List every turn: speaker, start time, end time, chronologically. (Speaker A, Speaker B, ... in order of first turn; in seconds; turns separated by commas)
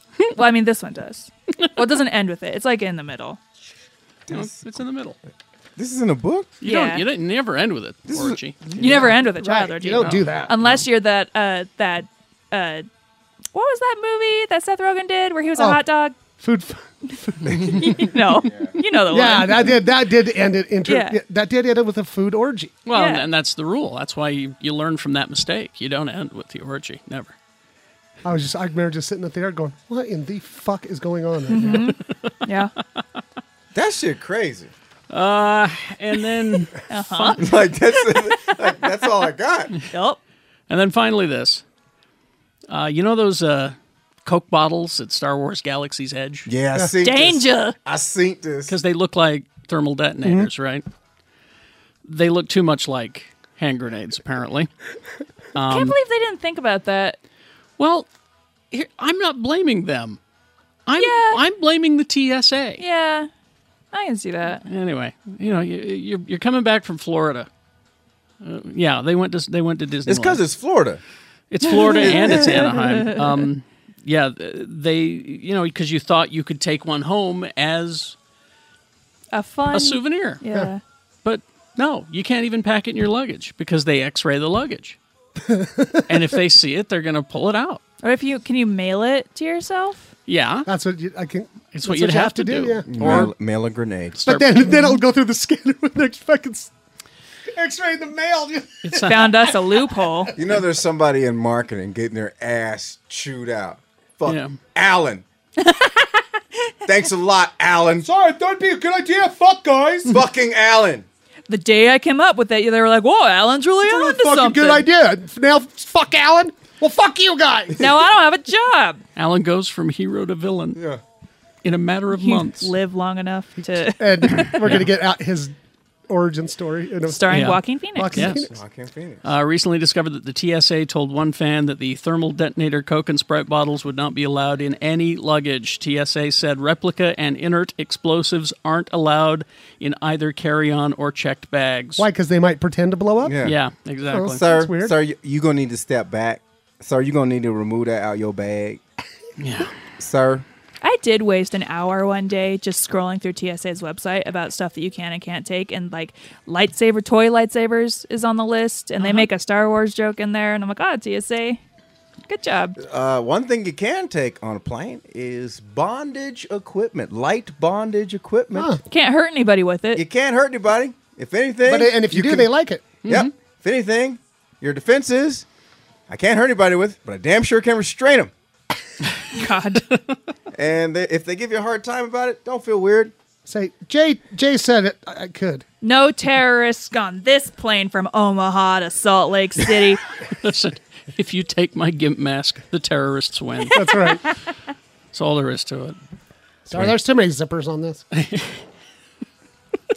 Speaker A: 0.3-3.4, Speaker B: 4.3-4.6, Speaker C: 4.3-5.2, Speaker B: 5.8-6.5, Speaker C: 6.6-8.8, Speaker A: 6.6-7.0, Speaker B: 8.1-8.8, Speaker D: 8.8-10.5, Speaker A: 8.8-12.8, Speaker C: 9.9-10.4, Speaker A: 13.5-16.1, Speaker D: 16.4-18.1, Speaker A: 17.5-19.9, Speaker B: 18.4-18.7, Speaker D: 19.1-22.8, Speaker A: 20.9-21.2, Speaker C: 22.9-27.3, Speaker A: 22.9-23.3, Speaker D: 28.2-31.9, Speaker A: 31.5-32.7, Speaker B: 33.7-34.7, Speaker C: 35.1-37.5, Speaker A: 36.9-37.5, Speaker B: 37.4-39.7, Speaker A: 39.9-40.2, Speaker C: 40.7-41.6, Speaker C: 42.7-46.5, Speaker B: 46.5-48.8, Speaker A: 47.0-47.8, Speaker C: 48.7-50.8, Speaker D: 50.2-50.5, Speaker C: 52.0-54.7, Speaker C: 55.5-56.0, Speaker A: 55.6-57.2, Speaker C: 57.8-58.1, Speaker C: 58.7-60.2, Speaker C: 60.9-62.8, Speaker A: 61.0-61.4, Speaker A: 62.8-63.3, Speaker A: 63.9-64.6, Speaker C: 64.6-67.5, Speaker C: 68.4-70.4, Speaker B: 70.0-71.0, Speaker C: 71.5-78.2, Speaker A: 71.6-73.4, Speaker B: 72.2-72.5, Speaker A: 79.3-80.8, Speaker C: 79.7-80.4, Speaker C: 81.2-85.0, Speaker D: 85.4-86.3, Speaker C: 86.1-87.8, Speaker A: 88.0-90.1, Speaker C: 90.3-90.7, Speaker D: 90.7-93.3, Speaker C: 91.7-93.3, Speaker B: 92.9-94.2, Speaker C: 94.2-94.7, Speaker D: 94.2-96.7, Speaker D: 97.5-99.5, Speaker C: 98.8-99.3, Speaker A: 99.0-100.3, Speaker B: 100.3-105.2, Speaker C: 104.2-104.5, Speaker A: 105.6-106.2, Speaker B: 106.8-108.1, Speaker D: 108.0-110.2, Speaker B: 110.1-111.0, Speaker A: 111.5-114.9, Speaker D: 113.8-117.8, Speaker A: 117.8-119.0, Speaker C: 119.2-120.8, Speaker B: 120.7-121.0, Speaker C: 121.6-122.7, Speaker A: 122.1-124.8, Speaker D: 123.6-125.5, Speaker D: 126.1-128.5, Speaker A: 127.0-128.4, Speaker C: 127.3-128.5, Speaker B: 128.5-129.2, Speaker C: 129.2-142.1, Speaker D: 142.0-143.4, Speaker B: 143.2-143.6, Speaker C: 143.4-144.4, Speaker D: 144.1-144.9, Speaker B: 144.2-148.8, Speaker C: 149.4-149.7, Speaker B: 150.0-150.4, Speaker A: 150.8-161.6, Speaker A: 162.3-162.8, Speaker B: 162.8-168.8, Speaker D: 168.5-168.8, Speaker A: 168.9-170.0, Speaker B: 169.9-172.5, Speaker D: 171.7-172.9, Speaker C: 173.0-173.3, Speaker B: 173.0-175.4, Speaker B: 176.1-178.3, Speaker A: 179.3-179.8, Speaker B: 180.5-183.1, Speaker D: 183.4-185.6, Speaker A: 185.8-190.0, Speaker C: 190.4-193.8, Speaker D: 193.7-194.2, Speaker C: 195.1-196.0, Speaker D: 196.7-198.0, Speaker C: 198.1-198.6